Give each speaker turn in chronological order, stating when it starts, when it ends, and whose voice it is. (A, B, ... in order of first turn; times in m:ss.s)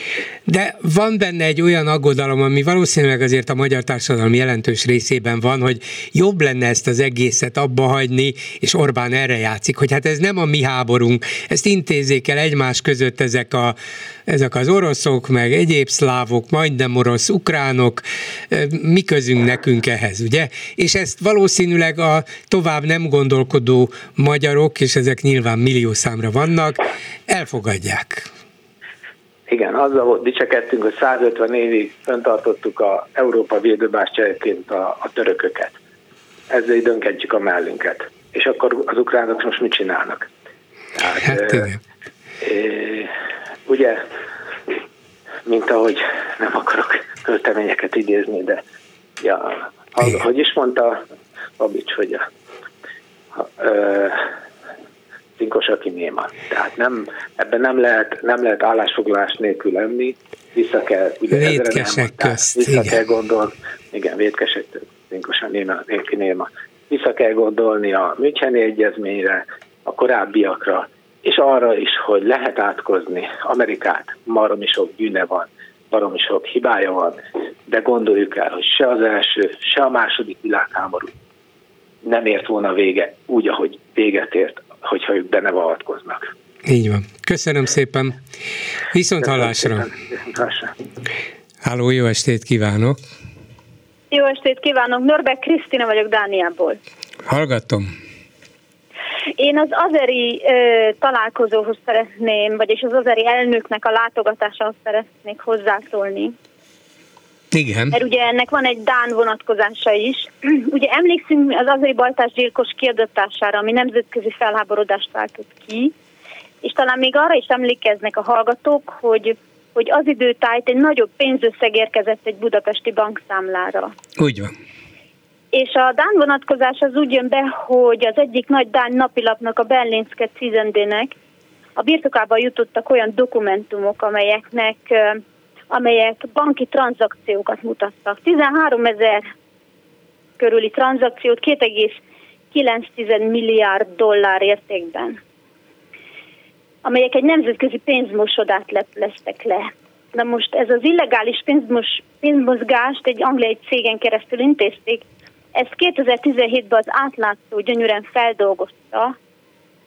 0:00.5-0:28.3 A
0:29.5-0:35.8 B
0:36.5-0:40.3 B
0:41.0-0:41.7 B
0:41.2-0:41.8 A
0:42.4-0:43.1 B
0:43.6-0:44.0 B
0:45.4-0:48.6 B
0:49.2-0:51.0 B
0:51.6-0:52.2 B
0:53.4-0:54.3 B
0:55.4-1:21.1 B
1:01.3-1:03.0 A
1:22.0-1:26.2 B
1:26.6-1:28.2 A
1:28.9-1:29.8 A
1:29.2-1:30.7 B
1:31.6-1:33.0 A
1:34.1-1:36.8 C
1:37.3-1:37.9 A
1:39.4-1:46.3 C
1:47.5-1:48.0 A
1:47.9-1:55.9 C
1:56.6-2:03.9 C
2:04.2-2:04.5 A
2:05.5-2:11.1 C
2:11.8-2:19.3 C
2:20.4-2:22.0 C
2:22.5-2:25.2 C
2:26.8-2:35.0 C
2:35.5-2:39.2 C